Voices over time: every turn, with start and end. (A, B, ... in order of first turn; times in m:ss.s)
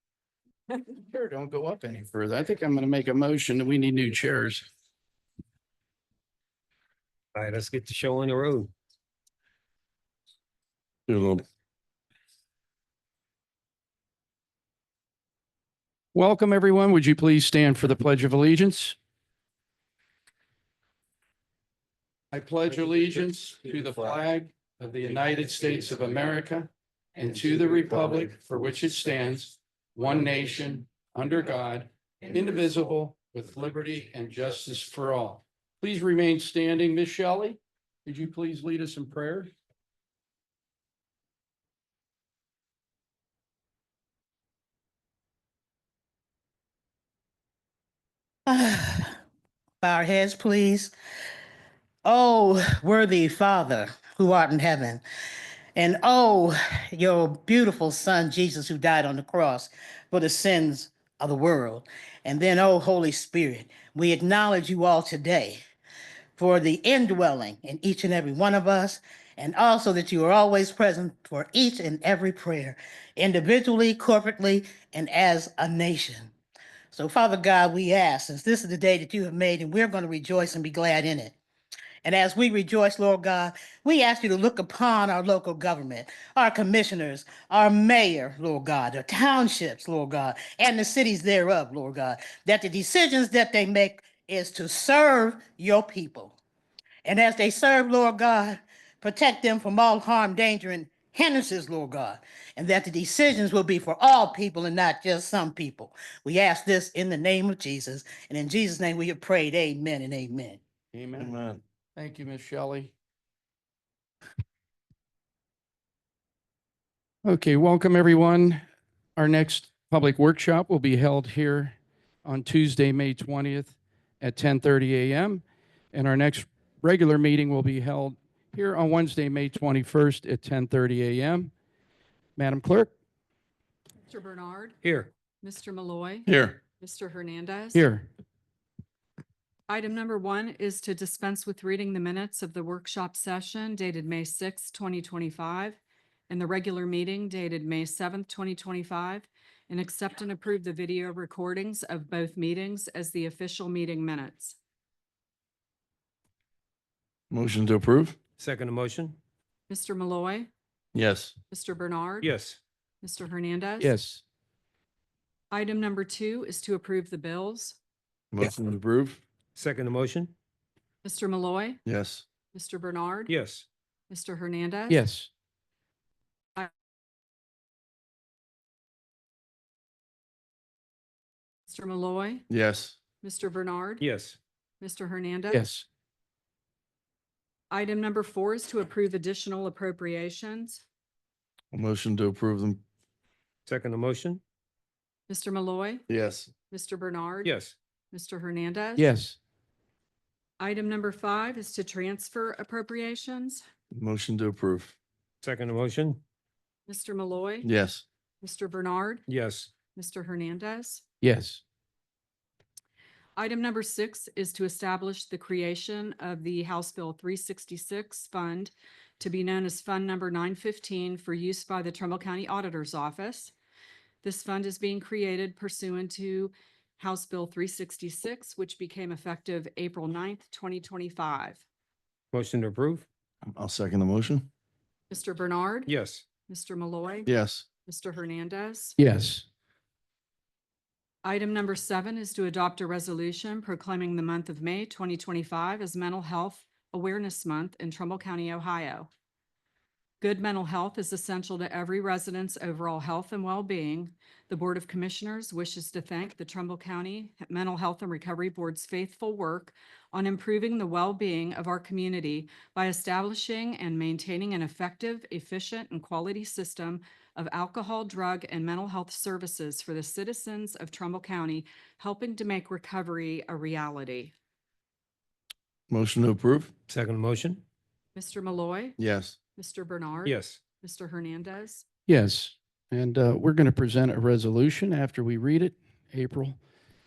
0:00.7-0:04.7 A
0:07.4-0:08.7 B
0:11.1-0:11.4 C
0:16.1-0:19.0 A
0:22.3-0:39.5 A
0:48.5-0:49.2 D
0:49.8-0:50.9 D
0:52.0-0:55.0 D
0:55.8-1:05.6 D
1:06.4-1:16.3 D
1:16.9-1:21.4 D
1:22.0-1:36.3 D
1:37.0-1:50.6 D
1:50.9-1:52.9 A
1:51.2-1:51.6 C
1:57.2-1:58.6 A
1:59.2-2:11.5 A
2:12.4-2:12.9 A
2:14.1-2:14.8 E
2:14.8-2:15.1 B
2:15.4-2:16.3 E
2:16.3-2:16.6 C
2:16.8-2:17.8 E
2:17.8-2:18.1 A
2:19.7-2:25.8 E
2:26.3-2:34.6 E
2:37.3-2:38.2 C
2:38.4-2:39.2 B
2:39.7-2:40.5 E
2:41.0-2:41.3 C
2:41.5-2:42.3 E
2:42.2-2:42.6 B
2:43.0-2:43.9 E
2:43.8-2:44.2 A
2:45.5-2:47.8 E
2:48.3-2:49.2 C
2:49.6-2:50.3 B
2:51.0-2:51.8 E
2:51.9-2:52.2 C
2:52.5-2:53.3 E
2:53.3-2:53.7 B
2:54.1-2:55.0 E
2:54.9-2:55.3 A
3:01.7-3:02.5 E
3:02.5-3:03.0 C
3:03.2-3:04.1 E
3:04.0-3:04.4 B
3:04.8-3:05.6 E
3:05.5-3:05.8 A
3:07.7-3:10.8 E
3:11.7-3:12.8 C
3:13.7-3:14.4 B
3:15.3-3:16.0 E
3:16.1-3:16.5 C
3:16.7-3:17.5 E
3:17.4-3:17.8 B
3:18.1-3:19.1 E
3:19.0-3:19.4 A
3:20.6-3:23.6 E
3:23.9-3:25.0 C
3:25.4-3:26.2 B
3:26.9-3:27.7 E
3:27.6-3:28.0 C
3:28.4-3:29.2 E
3:29.3-3:29.7 B
3:29.9-3:31.0 E
3:31.2-3:31.6 A
3:33.4-3:43.5 E
3:44.2-3:51.6 E
3:52.3-3:53.1 B
3:53.5-3:54.5 C
3:55.1-3:55.9 E
3:55.9-3:56.2 B
3:56.5-3:57.3 E
3:57.3-3:57.6 C
3:57.9-3:59.0 E
3:59.0-3:59.4 A
4:01.2-4:09.1 E
4:10.2-4:34.3 E
4:35.9-4:36.7 C
4:36.9-4:37.6 B
4:38.2-4:39.0 E
4:39.0-4:39.4 C
4:39.6-4:41.8 E
4:40.2-4:40.6 B
4:42.1-4:46.6 A